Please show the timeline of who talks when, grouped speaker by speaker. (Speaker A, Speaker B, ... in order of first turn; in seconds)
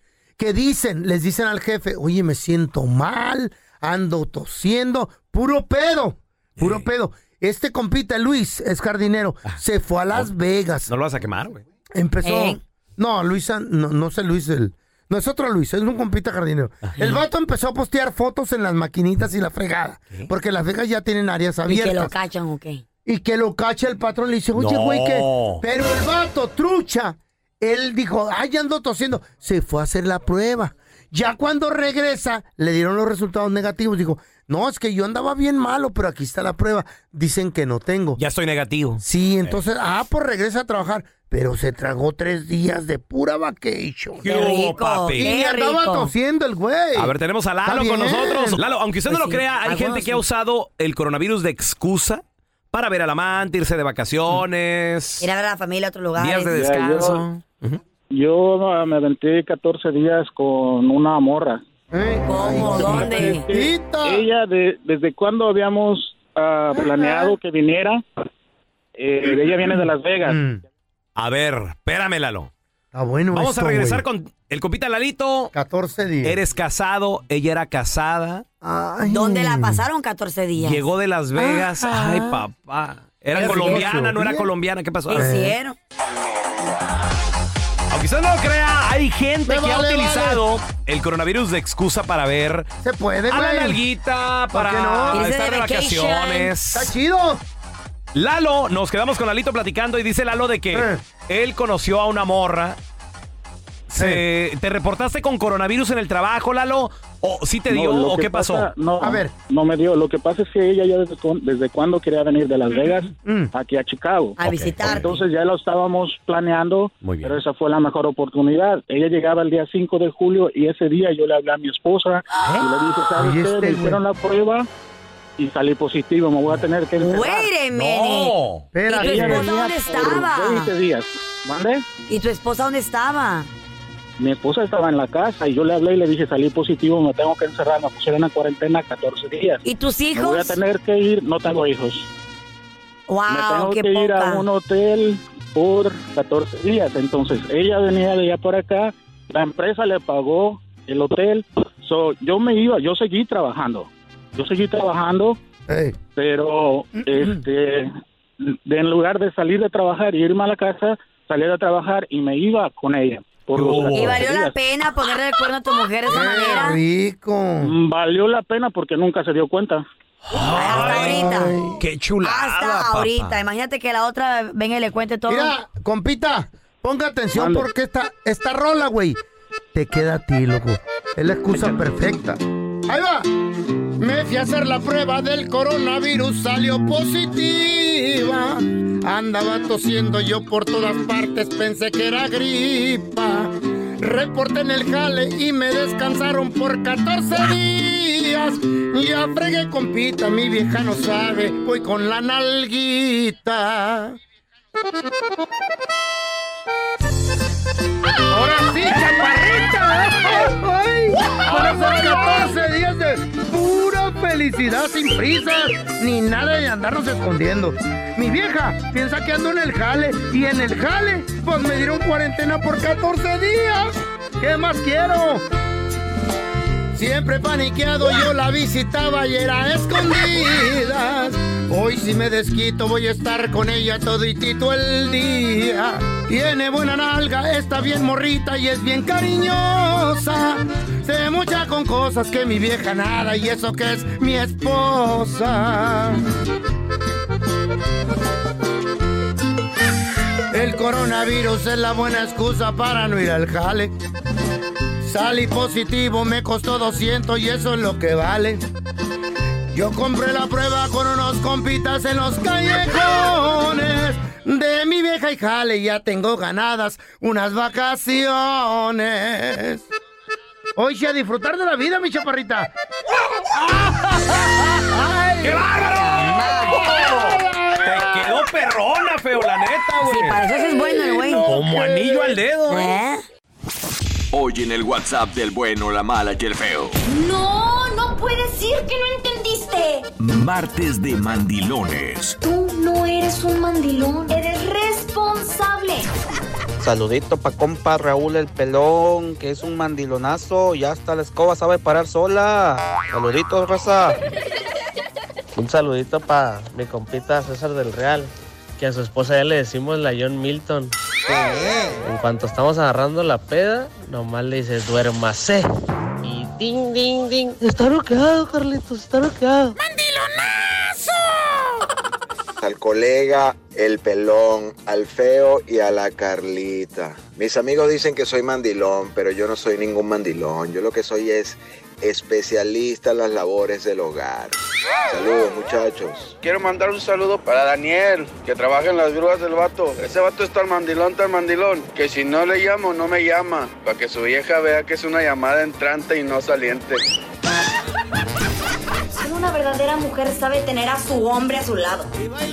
Speaker A: 0.4-10.9, 11.9-22.1, 23.0-38.2, 39.0-44.5, 45.1-47.1, 47.6-48.6, 61.9-64.2, 66.7-67.3, 70.2-70.6, 72.9-74.0, 75.5-76.4, 78.6-79.8, 81.4-82.4, 83.3-84.5, 85.1-85.5, 89.5-90.4, 92.8-93.8, 94.5-95.3, 96.7-97.4, 100.7-101.0, 104.0-104.2, 109.0-109.3, 113.2-113.5, 123.1-124.0, 128.7-129.5, 155.7-156.0, 157.1-157.4, 166.1-167.7, 170.6-171.8, 175.3-179.2, 179.7-183.3, 184.0-204.2, 208.3-225.4, 226.9-246.2, 250.5-253.9, 255.0-258.6, 259.7-269.9, 270.8-272.7, 274.8-275.7, 276.6-278.3, 280.5-282.4
Speaker B: 6.6-6.9, 10.9-11.6, 24.6-25.6, 38.2-39.6, 44.2-45.3, 47.0-55.3, 56.2-57.8, 71.2-72.5, 73.3-75.5, 76.2-78.4, 80.6-85.3, 87.9-92.7, 93.3-96.9, 98.1-102.8, 103.9-108.7, 114.4-115.1, 117.0-117.4, 127.7-128.7, 163.5-164.2, 170.3-173.4, 275.4-280.4, 281.5-282.9
Speaker C: 12.2-12.6, 21.7-22.8, 44.2-46.1, 49.1-50.2, 55.2-56.6, 62.3-63.5, 79.0-80.8, 83.4-83.9, 85.1-85.8, 95.1-96.5, 114.4-115.1, 127.0-128.3, 128.9-130.7, 132.1-133.5, 139.6-140.6, 143.1-144.4, 163.9-166.8, 170.5-171.6, 172.2-175.5, 275.7-276.8, 280.0-281.4, 282.7-283.2
Speaker D: 56.5-57.2, 58.1-61.6, 62.6-68.0, 69.0-70.4, 107.7-124.7, 125.4-127.5, 129.0-131.8, 134.2-142.1, 143.3-155.4, 156.2-164.5, 167.6-169.8, 177.3-177.7
Speaker E: 284.3-287.0, 290.2-292.4
Speaker F: 287.0-290.1, 292.4-296.1
Speaker G: 296.8-304.2
Speaker H: 305.6-319.8
Speaker I: 322.6-334.5, 335.1-336.4
Speaker J: 336.4-347.0